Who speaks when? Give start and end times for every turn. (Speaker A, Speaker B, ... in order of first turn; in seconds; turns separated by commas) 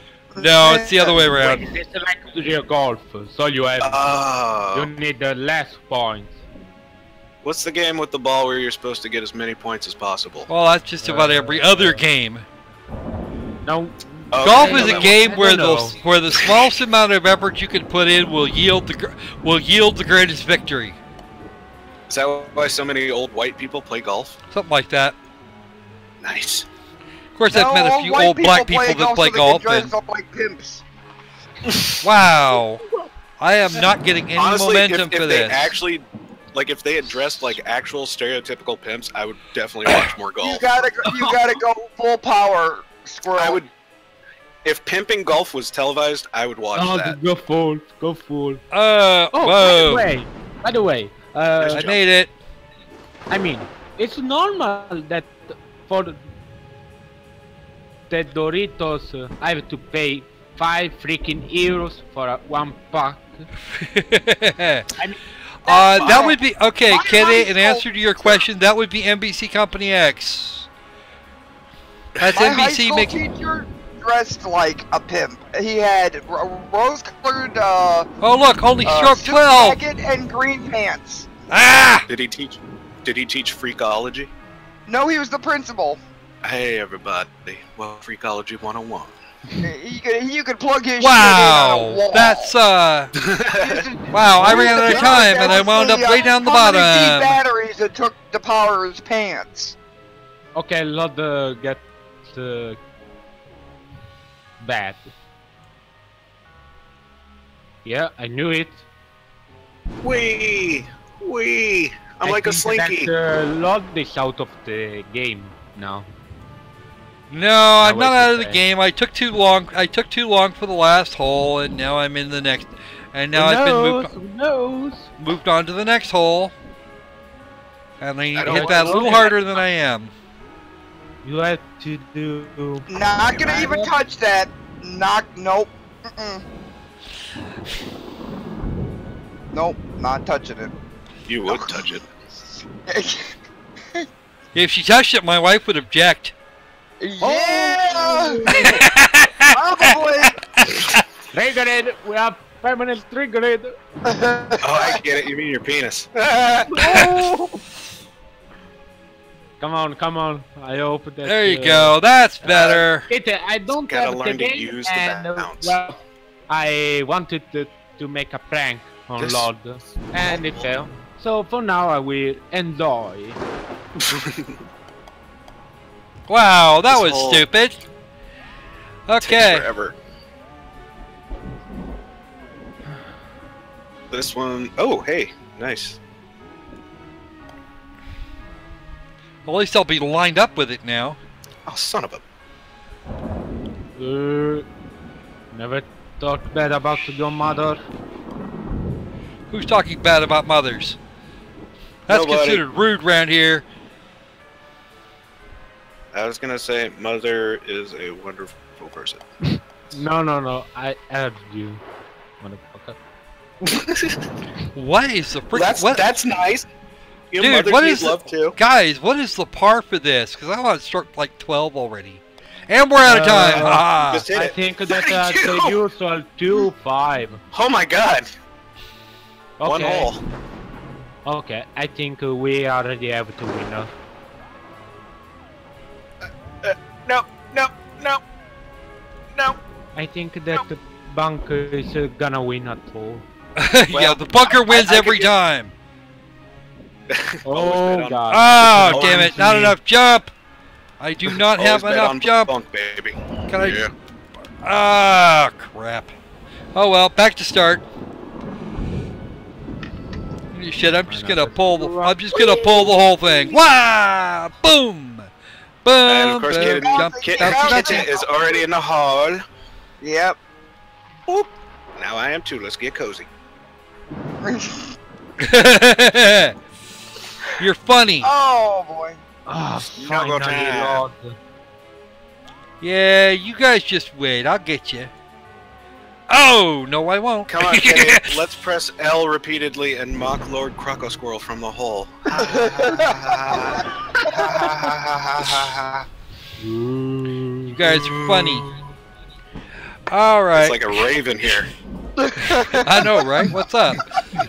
Speaker A: 0.3-1.2, Speaker B: 0.4-1.6, Speaker C: 1.4-4.1, Speaker D: 3.8-4.9, Speaker C: 4.7-6.4, Speaker D: 7.4-10.5, Speaker B: 10.5-12.4, Speaker C: 11.0-12.0, Speaker C: 13.6-16.0, Speaker D: 14.3-15.3, Speaker B: 14.4-21.0, Speaker D: 16.4-16.7, Speaker D: 22.1-24.3, Speaker B: 24.5-25.1, Speaker D: 26.2-26.7, Speaker B: 27.4-29.9, Speaker A: 27.5-30.8, Speaker B: 32.0-32.8, Speaker B: 33.4-35.7, Speaker D: 34.4-40.9, Speaker A: 40.4-43.6, Speaker D: 43.3-43.7, Speaker D: 44.6-47.2, Speaker C: 46.7-48.6, Speaker B: 48.7-50.1, Speaker C: 49.3-51.9, Speaker D: 51.6-52.0, Speaker B: 51.7-52.3, Speaker C: 53.3-56.2, Speaker C: 58.1-63.5, Speaker B: 63.8-64.8, Speaker B: 65.6-70.7, Speaker A: 65.7-68.4, Speaker D: 66.0-66.3, Speaker B: 72.2-73.2, Speaker A: 72.3-78.1, Speaker B: 78.2-79.8, Speaker A: 78.8-81.3, Speaker B: 81.5-82.1, Speaker D: 82.1-84.3, Speaker A: 84.9-86.0, Speaker D: 86.4-89.1, Speaker A: 89.6-92.5, Speaker B: 91.0-93.1, Speaker D: 93.2-93.9, Speaker A: 93.5-99.8, Speaker B: 94.1-97.4, Speaker C: 94.4-95.5, Speaker C: 100.5-102.8, Speaker C: 104.6-105.1, Speaker C: 107.8-108.8, Speaker D: 110.0-113.1, Speaker C: 112.2-116.0, Speaker B: 117.3-124.1, Speaker C: 117.8-118.6, Speaker C: 123.3-125.1, Speaker B: 125.2-126.5, Speaker B: 128.0-130.1, Speaker D: 128.3-129.6, Speaker C: 128.4-129.3, Speaker C: 131.2-133.9, Speaker A: 132.9-136.4, Speaker A: 139.5-140.7, Speaker D: 141.3-142.0, Speaker A: 141.5-141.8, Speaker A: 142.9-143.3, Speaker B: 144.5-146.3, Speaker A: 147.0-148.8, Speaker C: 147.2-148.8, Speaker B: 148.8-151.0, Speaker A: 149.5-150.4, Speaker C: 151.3-153.7, Speaker A: 154.0-155.0, Speaker D: 154.6-157.3, Speaker A: 156.8-157.4, Speaker C: 159.6-166.0, Speaker B: 161.2-163.1, Speaker D: 163.9-165.8, Speaker C: 166.5-173.4, Speaker D: 169.2-169.5, Speaker D: 170.2-170.7, Speaker D: 174.0-174.5, Speaker B: 176.3-177.8, Speaker D: 176.9-177.4, Speaker B: 179.1-179.7, Speaker D: 179.2-179.9, Speaker D: 184.1-186.0, Speaker B: 189.4-191.2, Speaker D: 191.7-192.2, Speaker C: 194.0-194.7, Speaker C: 195.5-197.8, Speaker B: 199.5-201.0, Speaker B: 202.1-203.6, Speaker D: 202.1-202.7, Speaker D: 206.1-209.2, Speaker C: 209.9-211.8, Speaker C: 212.4-213.0, Speaker D: 213.6-214.2, Speaker B: 214.7-216.1, Speaker D: 215.5-216.7, Speaker D: 217.3-218.6, Speaker B: 217.4-224.2, Speaker C: 223.0-227.4, Speaker D: 223.4-225.8, Speaker D: 227.5-228.3, Speaker C: 229.6-230.1, Speaker D: 229.6-230.2, Speaker C: 231.2-233.9, Speaker D: 236.6-238.2, Speaker D: 239.3-239.6, Speaker C: 239.9-243.2, Speaker B: 243.6-245.7, Speaker D: 243.9-245.3, Speaker D: 247.1-248.2, Speaker C: 247.4-249.7, Speaker B: 248.3-250.3, Speaker D: 248.9-249.3, Speaker B: 251.0-252.5, Speaker D: 251.5-253.9, Speaker B: 253.5-253.8, Speaker B: 254.6-256.1, Speaker B: 256.7-257.8, Speaker B: 260.5-265.3, Speaker C: 261.1-262.6, Speaker B: 265.8-268.1, Speaker D: 266.1-269.4, Speaker A: 266.5-268.3, Speaker A: 270.0-270.4, Speaker D: 271.3-273.3, Speaker A: 274.4-274.9, Speaker B: 275.4-276.6, Speaker B: 277.6-278.3, Speaker A: 278.2-279.2, Speaker C: 279.5-281.4, Speaker D: 280.0-281.0, Speaker B: 282.8-285.1, Speaker B: 286.3-288.4, Speaker D: 287.5-296.1, Speaker A: 292.4-293.2, Speaker C: 296.6-297.7, Speaker B: 297.7-298.7, Speaker D: 297.9-298.8, Speaker B: 300.1-301.0, Speaker D: 300.5-301.7, Speaker A: 302.2-303.1, Speaker B: 302.5-304.0